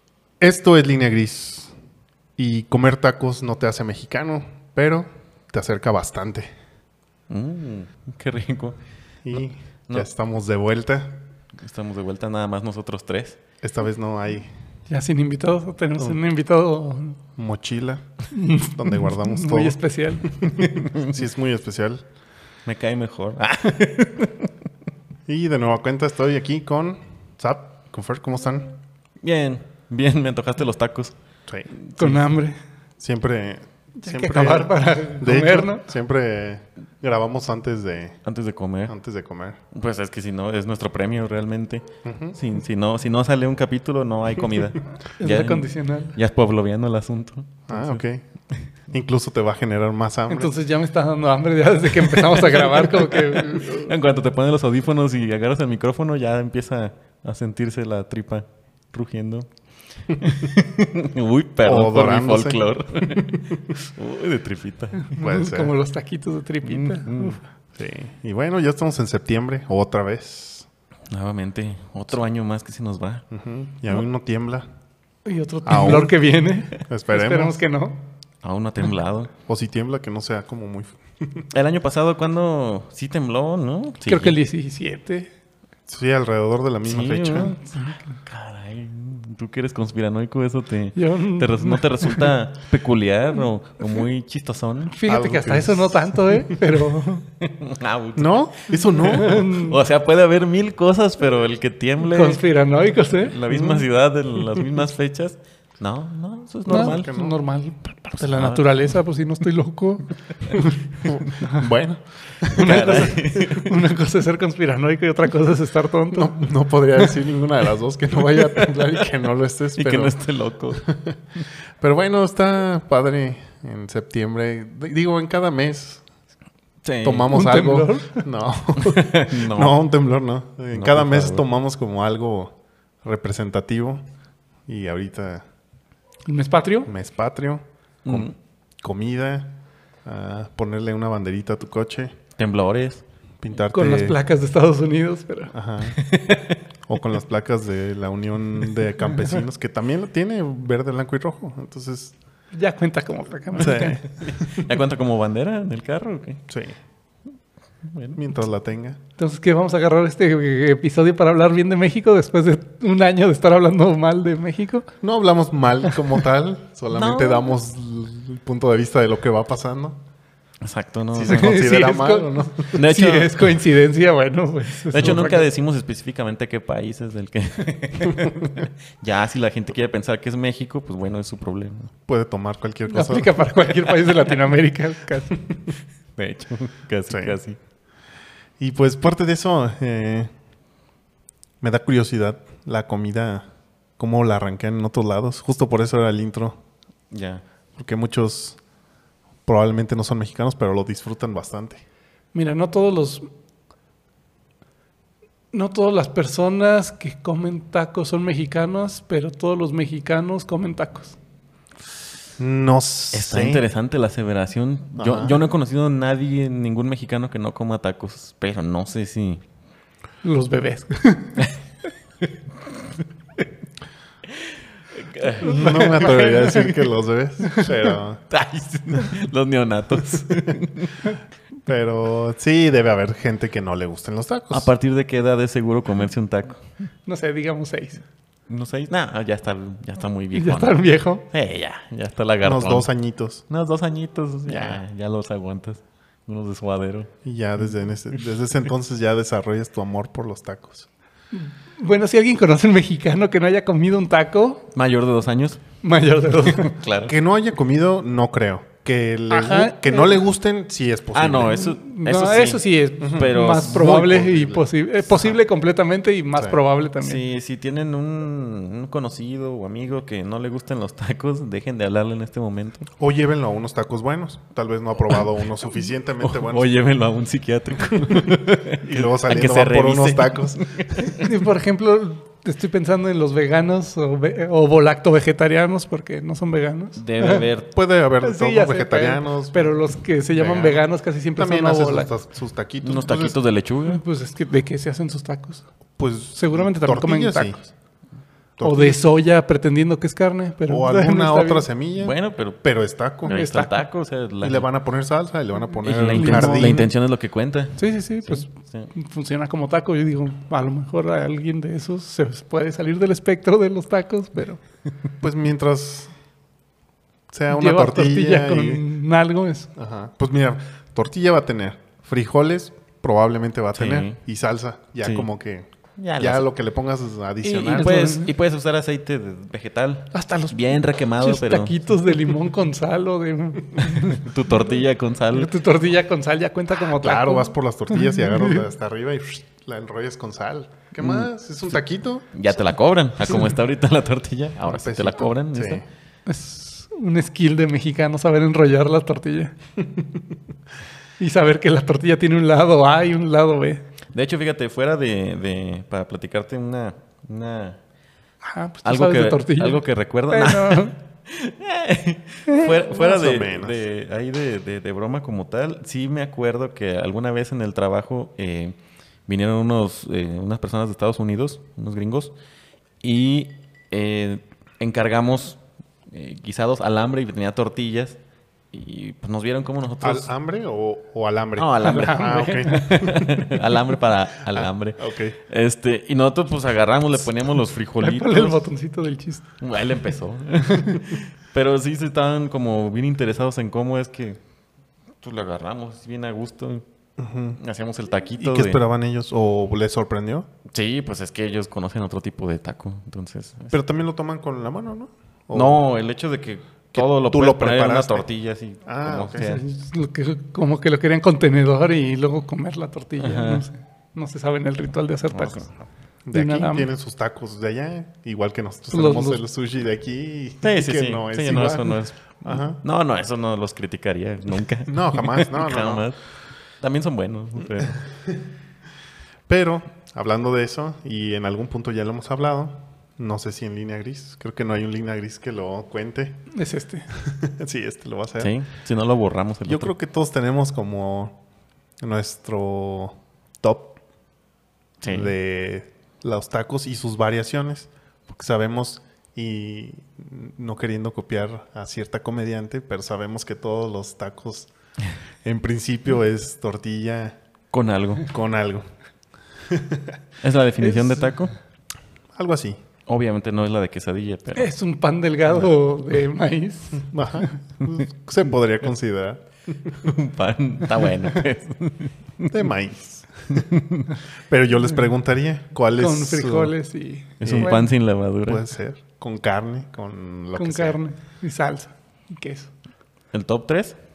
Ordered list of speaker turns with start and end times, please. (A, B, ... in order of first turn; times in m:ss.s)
0:00.4-0:01.7 A
0:02.4-0:06.5 A
0:07.3-0:08.8 B
0:09.2-0:11.3 A
0:11.5-0:13.4 B
0:13.6-0:14.5 A
0:14.9-0:17.2 C
0:17.4-0:22.0 A
0:18.3-0:20.7 C
0:20.8-0:21.1 B
0:22.7-0:24.5 B
0:25.3-0:28.8 A
0:29.2-0:31.2 B
0:31.8-0:32.2 B
0:32.0-0:32.6 C
0:33.0-0:38.2 A
0:34.0-0:35.8 C
0:38.2-0:39.0 B
0:38.9-0:39.6 A
0:39.7-0:48.0 B
0:42.0-0:42.4 A
0:45.2-0:46.2 C
0:47.7-0:48.2 A
0:48.9-0:50.5 A
0:50.3-0:53.9 C
0:52.3-0:59.5 B
1:00.2-1:05.1 B
1:01.6-1:03.6 A
1:05.0-1:07.4 C
1:05.2-1:05.8 A
1:06.6-1:07.4 B
1:07.7-1:10.7 A
1:11.1-1:13.2 B
1:13.3-1:14.7 A
1:15.2-1:18.0 C
1:15.6-1:16.2 A
1:16.8-1:17.6 A
1:18.4-1:19.3 B
1:19.5-1:21.5 A
1:21.5-1:24.4 B
1:24.1-1:25.3 C
1:25.9-1:27.6 A
1:26.8-1:35.0 B
1:31.0-1:32.3 C
1:34.9-1:37.3 C
1:35.1-1:36.6 A
1:37.4-1:38.3 B
1:38.2-1:39.4 A
1:38.9-1:42.4 B
1:39.1-1:39.7 C
1:42.0-1:43.4 C
1:43.2-1:47.1 B
1:43.5-1:43.8 A
1:46.7-1:47.4 A
1:46.7-1:50.5 C
1:48.2-1:48.7 B
1:50.4-1:51.4 B
1:51.1-1:52.8 A
1:52.5-1:53.7 B
1:52.5-1:56.5 C
1:56.1-2:00.2 A
1:59.8-2:00.9 B
2:00.8-2:01.2 A
2:01.8-2:06.0 A
2:06.8-2:07.3 B
2:07.0-2:14.0 A
2:07.3-2:08.3 C
2:08.8-2:09.8 B
2:10.7-2:11.4 B
2:14.7-2:15.4 A
2:16.3-2:16.9 C
2:16.9-2:18.3 A
2:18.0-2:18.4 B
2:18.8-2:22.2 A
2:22.4-2:23.0 B
2:23.4-2:24.2 A
2:23.7-2:25.5 C
2:25.5-2:26.0 A
2:25.9-2:26.6 B
2:26.9-2:32.2 A
2:32.5-2:34.0 C
2:33.6-2:34.7 A
2:33.6-2:36.4 B
2:36.5-2:36.8 A
2:37.9-2:38.2 B
2:38.2-2:39.0 A
2:39.2-2:44.9 C
2:45.0-2:50.0 A
2:46.9-2:47.5 B
2:50.6-2:51.6 B
2:51.1-2:52.8 A
2:51.3-2:55.4 C
2:52.7-2:53.5 B
2:54.9-3:01.9 B
2:55.0-2:55.4 A
3:02.1-3:03.4 A
3:02.9-3:05.4 C
3:06.2-3:07.6 B
3:07.1-3:07.4 A
3:08.6-3:10.3 A
3:11.6-3:16.6 A
3:17.1-3:17.4 B
3:17.8-3:18.6 A
3:19.4-3:21.8 A
3:22.3-3:23.3 C
3:25.5-3:31.2 C
3:32.4-3:33.6 A
3:33.1-3:39.4 B
3:35.0-3:35.4 A
3:40.2-3:41.5 C
3:45.0-3:46.5 B
3:45.4-3:48.2 A
3:45.4-3:46.8 C
3:48.3-3:51.1 B
3:50.2-3:50.6 A
3:51.7-3:54.7 A
3:54.5-3:56.6 B
3:57.1-3:58.0 C
3:58.5-4:02.9 B
4:00.3-4:01.3 C
4:02.4-4:03.4 A
4:03.5-4:07.1 B
4:04.5-4:04.8 A
4:07.2-4:10.9 A
4:11.3-4:14.7 C
4:14.7-4:15.6 B
4:15.8-4:16.8 C
4:16.5-4:17.1 B
4:17.0-4:21.7 A
4:19.3-4:20.2 C
4:21.1-4:24.1 B
4:21.5-4:27.2 C
4:23.0-4:25.4 A
4:27.0-4:32.9 B
4:33.0-4:36.7 A
4:36.2-4:41.3 B
4:38.0-4:41.1 A
4:41.1-4:47.4 C
4:47.0-4:47.7 B
4:47.7-4:49.8 A
4:48.2-4:52.1 C
4:50.4-4:50.8 A
4:51.4-4:53.4 A
4:52.8-4:54.0 B
4:53.9-4:55.6 C
4:56.0-4:57.6 A
4:56.4-4:57.6 C
4:58.6-4:59.0 A
4:58.6-5:01.7 C
5:00.7-5:03.4 A
5:02.0-5:02.6 B
5:03.2-5:04.7 B
5:03.3-5:03.8 C
5:04.4-5:06.9 A
5:05.8-5:08.9 B
5:06.1-5:06.9 C
5:07.8-5:14.6 C
5:15.2-5:16.1 A
5:17.3-5:18.8 A
5:17.5-5:19.7 C
5:19.8-5:28.0 A
5:23.8-5:24.2 B
5:26.0-5:26.5 B
5:27.4-5:31.8 B
5:27.6-5:28.3 C
5:30.1-5:34.6 C
5:33.8-5:35.5 B
5:35.3-5:38.7 C
5:37.0-5:42.4 A
5:41.0-5:41.3 B
5:42.3-5:45.8 B
5:44.7-5:45.8 A
5:46.3-5:49.5 C
5:49.8-5:50.1 A
5:51.2-5:53.8 C
5:54.1-5:57.8 B
5:58.4-6:00.9 C
5:58.8-6:08.8 B
6:02.6-6:03.8 A
6:09.3-6:12.3 B
6:13.0-6:18.2 B
6:18.7-6:20.3 B
6:20.0-6:23.4 A
6:21.6-6:28.6 B
6:21.8-6:23.0 C
6:24.5-6:25.4 A
6:28.0-6:29.5 C
6:29.6-6:34.4 B
6:35.2-6:36.8 B
6:37.2-6:37.6 A
6:37.6-6:38.8 B
6:38.4-6:40.5 A
6:40.7-6:43.7 B
6:43.7-6:45.8 A
6:45.5-6:49.6 B
6:46.9-6:48.3 A
6:48.8-6:49.6 A
6:49.4-6:55.7 C
6:53.2-6:53.7 B
6:55.3-6:55.7 B
6:56.3-7:02.8 A
6:56.3-6:56.9 C
6:58.9-6:59.4 C
7:00.6-7:06.2 B
7:04.9-7:06.0 A
7:06.8-7:08.0 B
7:09.5-7:16.4 A
7:16.5-7:17.1 C
7:17.2-7:18.5 A
7:18.4-7:19.9 B
7:19.7-7:21.4 A
7:22.0-7:24.0 A
7:25.0-7:25.4 B
7:25.1-7:34.7 A
7:35.4-7:37.4 A
7:37.7-7:38.3 B
7:38.2-7:38.8 A
7:39.7-7:40.2 A
7:40.4-7:41.5 B
7:42.3-7:42.8 A
7:43.1-7:44.7 B
7:44.6-7:47.1 C
7:47.0-7:50.1 A
7:50.0-7:52.6 B
7:52.5-7:53.6 A
7:53.5-7:54.1 B
7:54.5-7:56.7 A
7:56.0-7:57.9 C
7:57.4-7:58.6 B
7:57.4-7:57.9 A
7:58.4-8:01.0 A
8:00.6-8:02.7 C
8:03.3-8:04.0 B